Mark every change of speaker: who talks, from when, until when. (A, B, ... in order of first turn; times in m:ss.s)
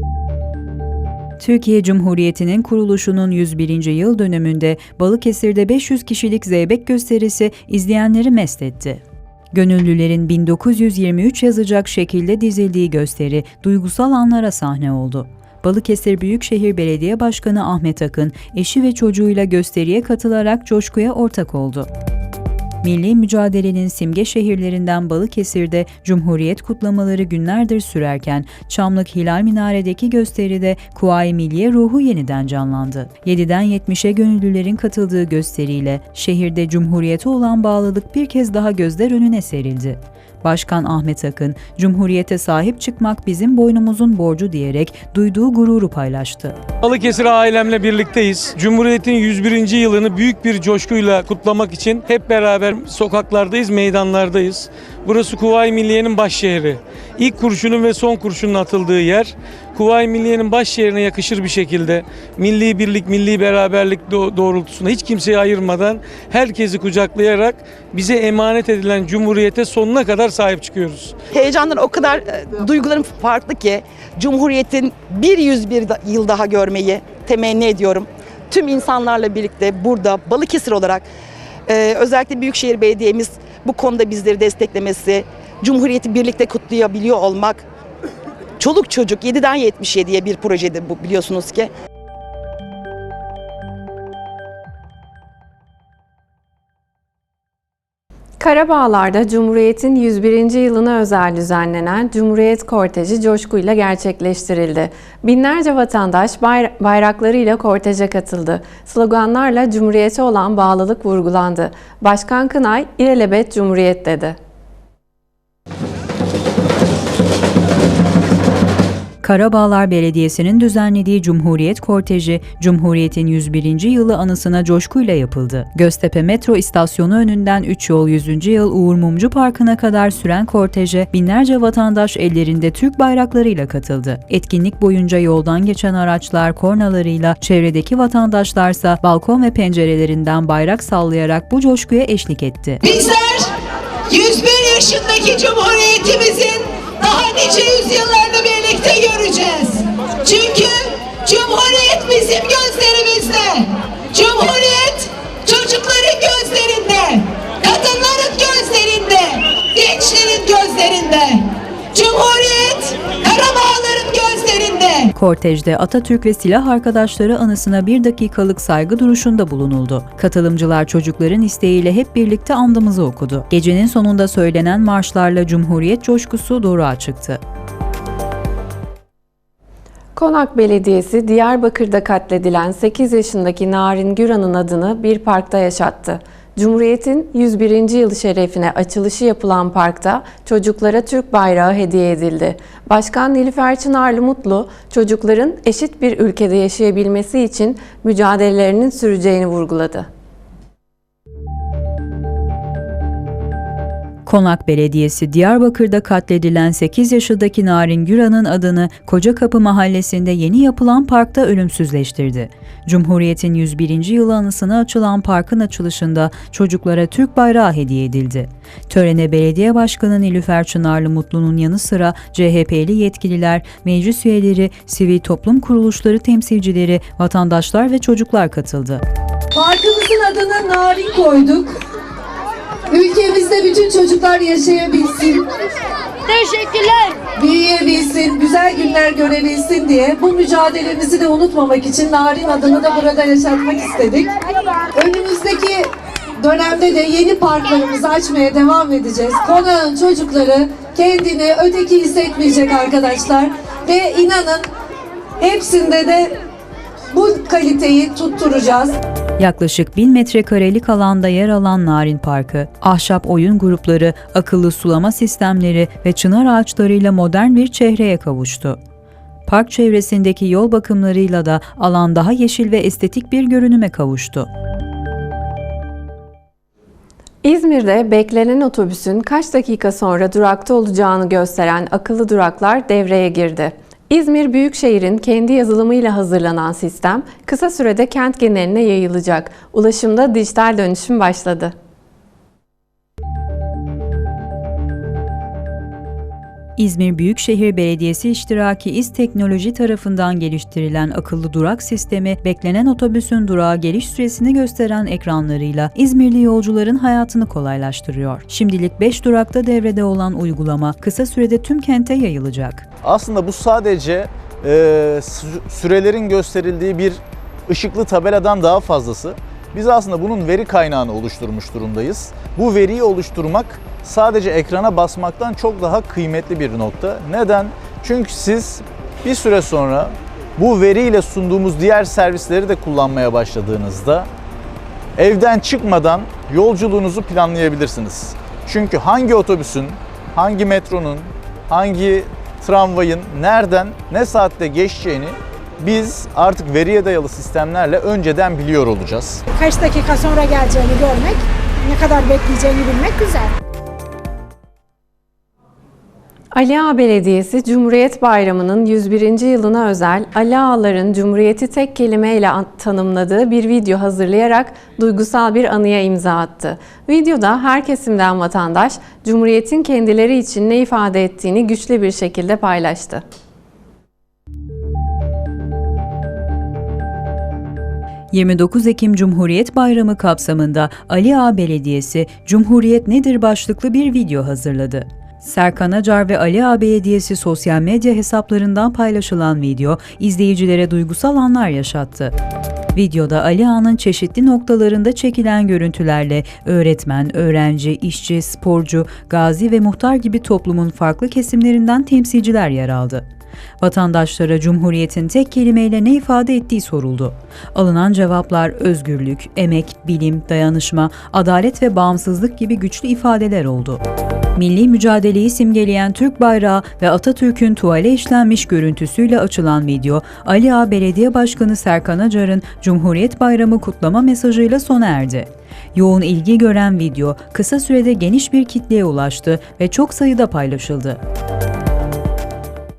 0:01.4-0:09.0 A
0:09.5-0:21.9 A
0:22.8-0:46.6 A
0:46.8-1:11.2 B
1:11.3-1:21.1 C
1:21.7-1:27.6 C
1:28.6-1:31.7 C
1:38.4-1:54.4 D
1:59.2-2:22.8 A
2:23.0-2:23.4 E
2:24.2-2:24.6 E
2:27.2-2:28.7 E
2:34.3-2:35.0 E
2:35.6-2:37.2 E
2:38.5-2:39.2 E
2:39.9-2:41.2 E
2:42.0-2:45.0 E
2:45.1-2:57.4 A
3:00.2-3:20.1 D
3:24.3-3:49.0 A
3:49.5-3:51.8 F
3:52.9-3:55.4 F
3:57.3-4:04.3 F
4:05.0-4:14.7 F
4:15.4-4:16.3 F
4:17.1-4:19.0 F
4:19.4-4:28.8 A
4:29.5-4:34.5 A
4:37.4-4:51.7 D
4:56.8-5:12.8 A
5:13.0-5:34.3 G
5:35.2-5:49.4 G
5:49.5-5:53.5 H
5:56.5-6:13.2 D
6:18.3-6:32.3 A
6:32.9-6:43.2 A
6:43.8-6:54.0 A
6:54.6-7:11.2 A